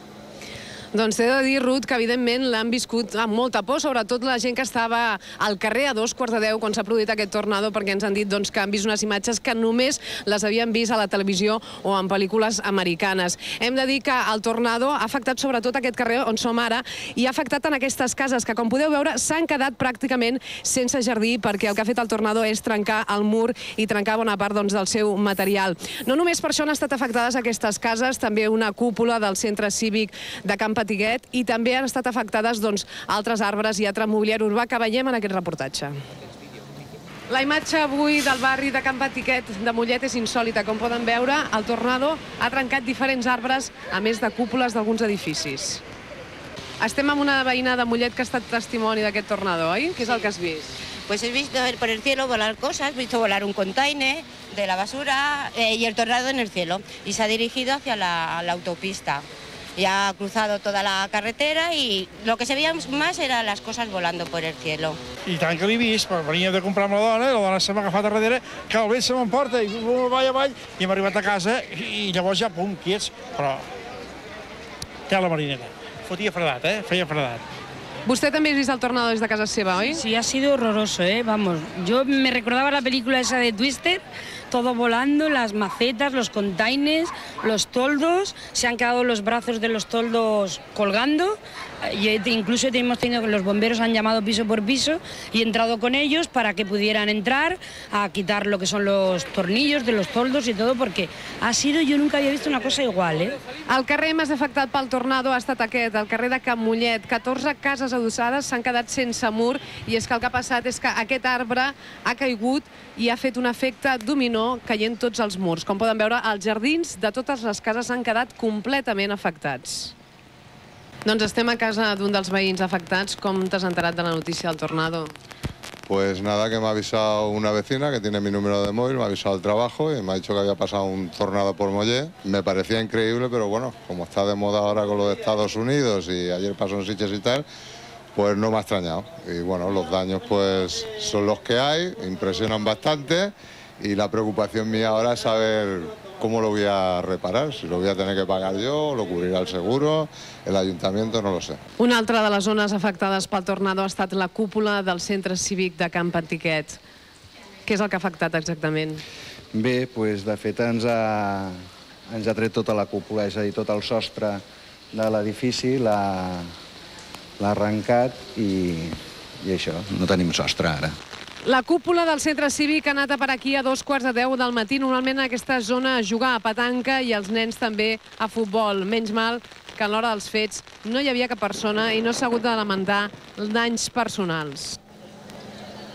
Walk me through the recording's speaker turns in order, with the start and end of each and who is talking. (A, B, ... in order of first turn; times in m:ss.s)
0:00.9-0:35.9 A
0:37.3-0:45.8 A
0:46.8-0:50.7 A
0:51.1-1:05.0 B
1:05.3-1:13.6 C
1:15.1-1:17.4 C
1:18.1-1:20.0 A
1:19.9-1:43.4 D
1:43.7-1:59.9 A
2:01.0-2:05.1 A
2:05.9-2:17.5 E
2:18.2-2:31.6 E
2:31.8-2:36.8 A
2:37.7-2:39.0 A
2:39.5-2:41.6 F
2:42.1-2:46.5 F
2:47.4-2:50.6 F
2:51.4-3:04.8 A